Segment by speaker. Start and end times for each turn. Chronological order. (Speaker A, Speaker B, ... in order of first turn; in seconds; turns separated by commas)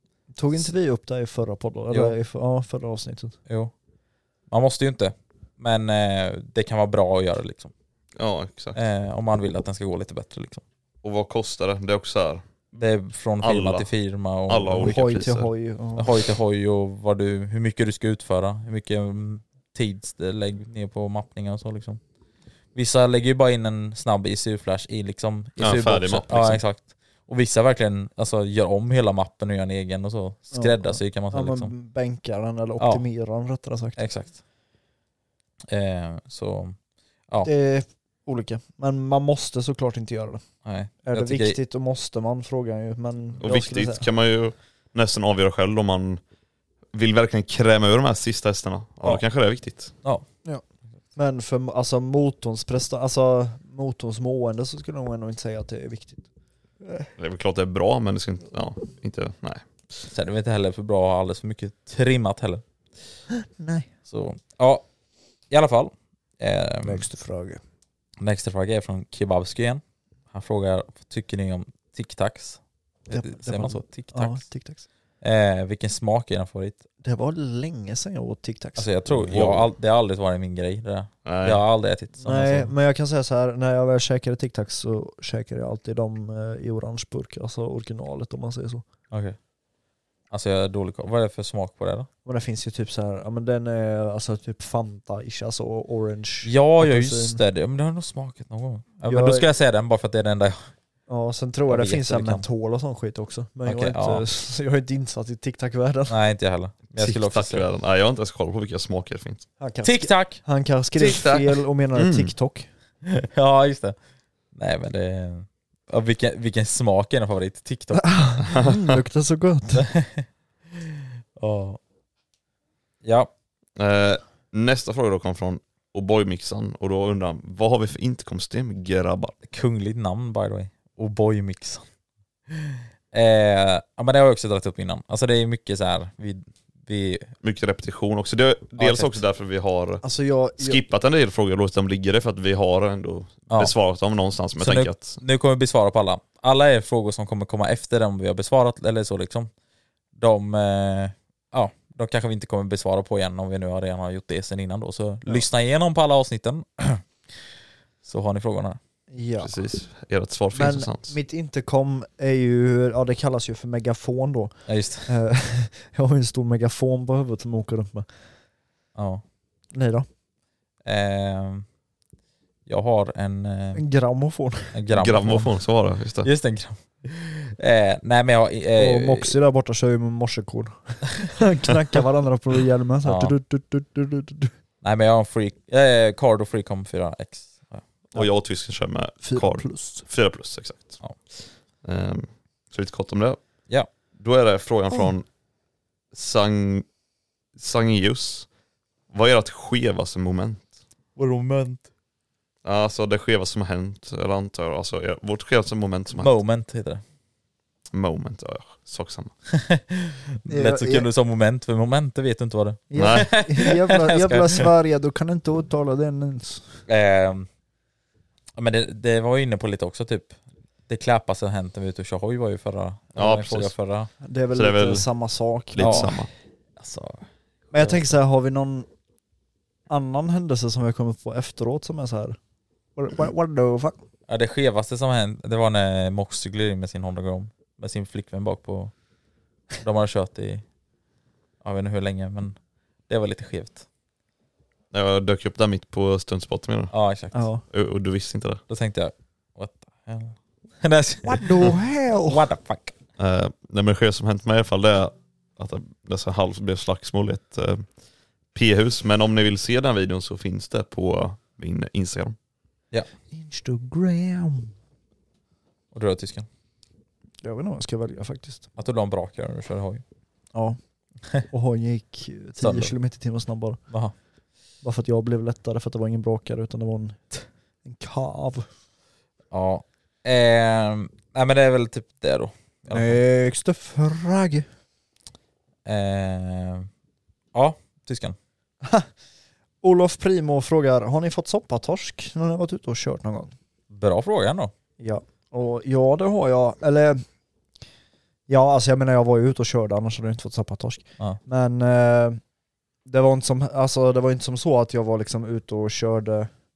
Speaker A: 0.3-3.4, Speaker B: 4.5-7.7, Speaker C: 8.2-8.8, Speaker B: 8.7-10.6, Speaker C: 11.0-12.4, Speaker B: 12.8-15.0, Speaker C: 13.4-13.9, Speaker C: 14.5-15.5, Speaker A: 14.8-16.1, Speaker B: 16.0-22.0, Speaker B: 22.7-31.7, Speaker C: 25.6-26.6, Speaker A: 30.5-34.0, Speaker B: 32.8-33.0, Speaker B: 34.0-34.4, Speaker B: 35.7-36.8, Speaker A: 37.4-40.4, Speaker B: 40.6-41.6, Speaker A: 41.0-44.1, Speaker C: 43.4-46.2, Speaker C: 46.9-49.9, Speaker A: 51.1-56.3, Speaker C: 57.2-59.6, Speaker B: 60.1-62.6, Speaker A: 63.3-63.9, Speaker B: 64.1-64.8, Speaker B: 65.5-67.0, Speaker A: 66.8-67.6, Speaker B: 68.2-72.6, Speaker A: 73.1-74.8, Speaker B: 73.1-74.4, Speaker B: 75.2-76.8, Speaker A: 77.0-78.9, Speaker B: 78.8-82.7, Speaker C: 79.1-79.7, Speaker C: 81.2-81.6, Speaker A: 82.2-88.8, Speaker B: 89.1-89.3, Speaker B: 90.3-92.1, Speaker A: 92.2-97.4, Speaker B: 96.4-100.7, Speaker A: 99.1-99.5, Speaker A: 101.1-106.1, Speaker B: 101.7-102.4, Speaker B: 103.6-104.2, Speaker B: 106.1-107.7, Speaker C: 107.0-109.5, Speaker A: 109.6-112.7, Speaker B: 109.8-110.4, Speaker C: 111.0-111.4, Speaker C: 111.9-112.3, Speaker B: 113.0-114.0, Speaker B: 114.5-118.2, Speaker A: 118.0-119.8, Speaker B: 119.7-120.3, Speaker B: 121.4-121.8, Speaker B: 123.0-123.3, Speaker C: 123.8-129.3, Speaker B: 129.4-131.8, Speaker B: 133.1-137.3, Speaker C: 137.4-140.0, Speaker B: 138.8-139.2, Speaker A: 140.0-140.8, Speaker C: 140.6-145.2, Speaker B: 144.6-149.5, Speaker B: 150.2-157.0, Speaker B: 158.0-158.8, Speaker A: 159.1-159.5, Speaker C: 159.4-161.1, Speaker A: 160.5-168.1, Speaker B: 164.7-165.1, Speaker B: 168.9-169.2, Speaker A: 169.7-170.1, Speaker B: 170.8-171.6, Speaker B: 172.7-173.8, Speaker A: 173.7-174.7, Speaker B: 174.7-175.5, Speaker C: 174.9-176.3, Speaker B: 176.2-179.3, Speaker A: 178.8-184.5, Speaker B: 183.0-183.4, Speaker B: 184.8-187.8, Speaker C: 188.1-193.4, Speaker A: 189.2-190.1, Speaker C: 194.2-195.2, Speaker C: 196.1-196.8, Speaker C: 197.6-198.5, Speaker C: 199.1-200.7, Speaker B: 201.2-201.9, Speaker C: 202.6-206.3, Speaker B: 206.2-207.0, Speaker C: 207.9-209.3, Speaker B: 209.5-214.7, Speaker A: 210.5-211.1, Speaker A: 212.9-216.7, Speaker C: 212.9-213.4, Speaker B: 216.9-217.5, Speaker B: 218.6-220.3, Speaker B: 220.9-224.1, Speaker C: 223.1-223.7, Speaker A: 224.2-226.2, Speaker C: 224.5-225.1, Speaker C: 225.7-226.3, Speaker B: 225.8-226.2, Speaker B: 226.8-227.2, Speaker A: 227.7-228.9, Speaker B: 227.8-228.0, Speaker A: 229.9-232.4, Speaker A: 232.9-234.0, Speaker B: 234.3-238.9, Speaker B: 239.8-240.6, Speaker B: 241.6-242.6, Speaker B: 243.1-243.8, Speaker C: 244.9-246.9, Speaker B: 246.9-247.4, Speaker A: 247.3-247.6, Speaker C: 247.7-248.6, Speaker B: 248.7-251.7, Speaker A: 251.2-252.4, Speaker B: 252.3-252.9, Speaker C: 253.2-257.9, Speaker C: 258.5-262.3, Speaker A: 263.3-264.7, Speaker B: 265.9-266.5, Speaker A: 267.4-268.7, Speaker B: 268.8-270.0, Speaker A: 270.5-270.8, Speaker A: 271.4-273.8, Speaker B: 272.6-272.9, Speaker A: 274.8-277.3, Speaker A: 277.8-278.7, Speaker B: 279.5-283.2, Speaker A: 282.9-284.7, Speaker B: 285.8-286.9, Speaker B: 287.5-288.4, Speaker A: 288.8-289.1, Speaker A: 289.8-293.5, Speaker B: 293.9-294.7, Speaker A: 295.0-297.2, Speaker A: 298.5-302.4, Speaker A: 303.0-306.5